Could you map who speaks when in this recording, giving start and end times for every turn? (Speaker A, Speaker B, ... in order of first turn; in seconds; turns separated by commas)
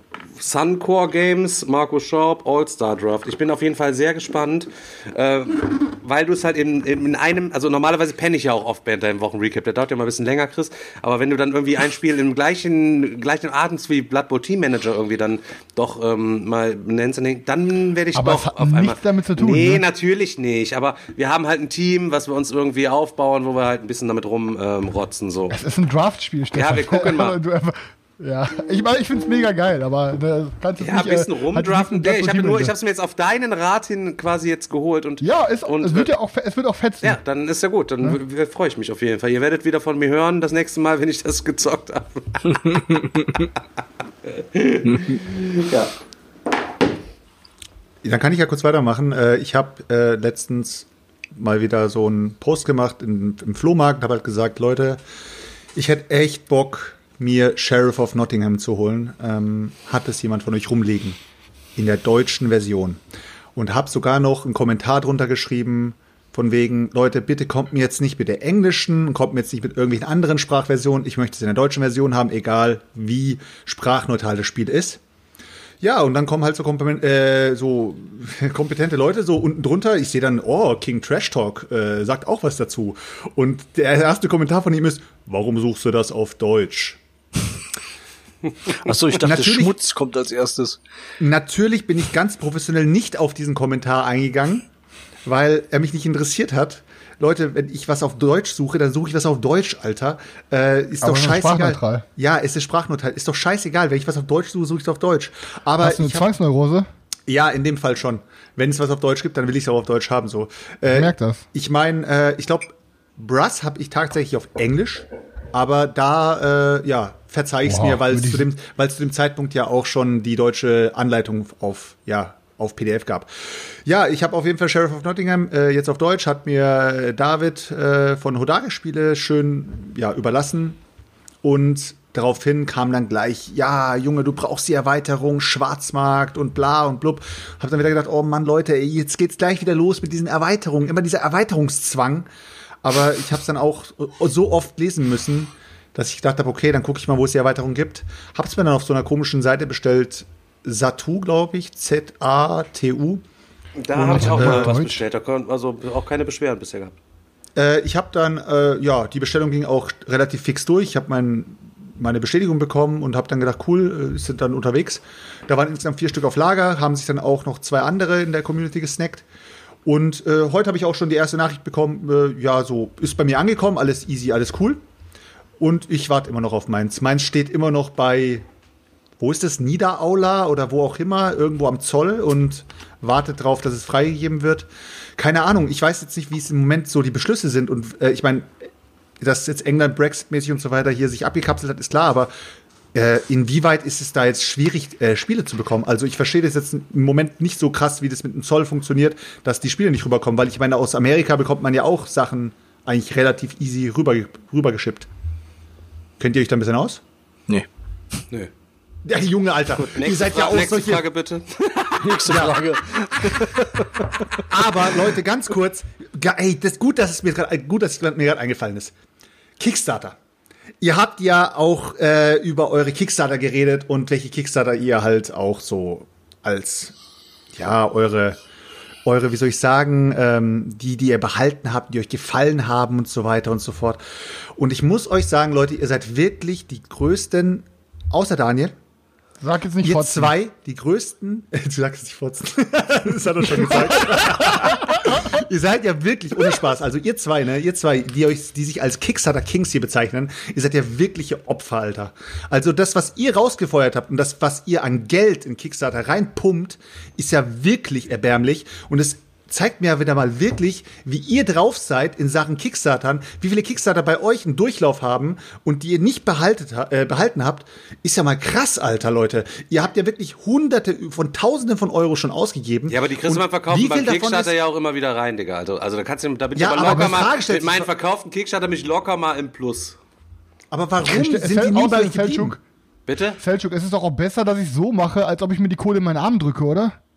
Speaker A: 0.4-25.6, Speaker B: 18.1-19.8, Speaker B: 25.5-32.7, Speaker A: 26.5-27.4, Speaker A: 30.8-36.1, Speaker B: 35.2-37.2, Speaker A: 37.0-42.8, Speaker C: 42.5-43.3, Speaker A: 44.3-45.6, Speaker C: 44.8-45.2, Speaker D: 48.0-55.0, Speaker D: 55.7-61.2, Speaker D: 61.8-63.0, Speaker D: 63.5-75.0, Speaker D: 75.8-87.0, Speaker C: 88.8-90.8, Speaker D: 89.2-89.7, Speaker D: 91.2-94.7, Speaker D: 95.2-106.3, Speaker B: 101.0-102.0, Speaker B: 105.8-106.9, Speaker D: 107.3-130.8, Speaker B: 110.9-111.4, Speaker B: 117.6-118.5, Speaker D: 131.4-142.3, Speaker D: 142.8-153.2, Speaker A: 153.8-156.9, Speaker B: 153.9-155.0, Speaker D: 154.1-154.7, Speaker D: 157.6-169.2, Speaker D: 169.8-174.8, Speaker D: 175.6-178.4, Speaker D: 179.2-188.7, Speaker D: 189.2-192.3, Speaker D: 192.9-205.1, Speaker D: 206.2-207.0, Speaker D: 209.1-211.0, Speaker A: 209.8-212.9, Speaker C: 212.0-214.4, Speaker D: 212.3-212.6, Speaker D: 214.3-218.9, Speaker D: 219.6-220.2, Speaker D: 220.8-226.9, Speaker D: 227.6-228.4, Speaker D: 229.0-234.0, Speaker D: 234.6-238.7, Speaker B: 239.4-240.3, Speaker D: 239.8-274.5, Speaker B: 244.0-245.2, Speaker A: 272.9-280.0, Speaker D: 276.6-277.9, Speaker D: 280.7-282.6, Speaker B: 281.0-282.6, Speaker A: 283.1-283.4, Speaker B: 283.4-286.9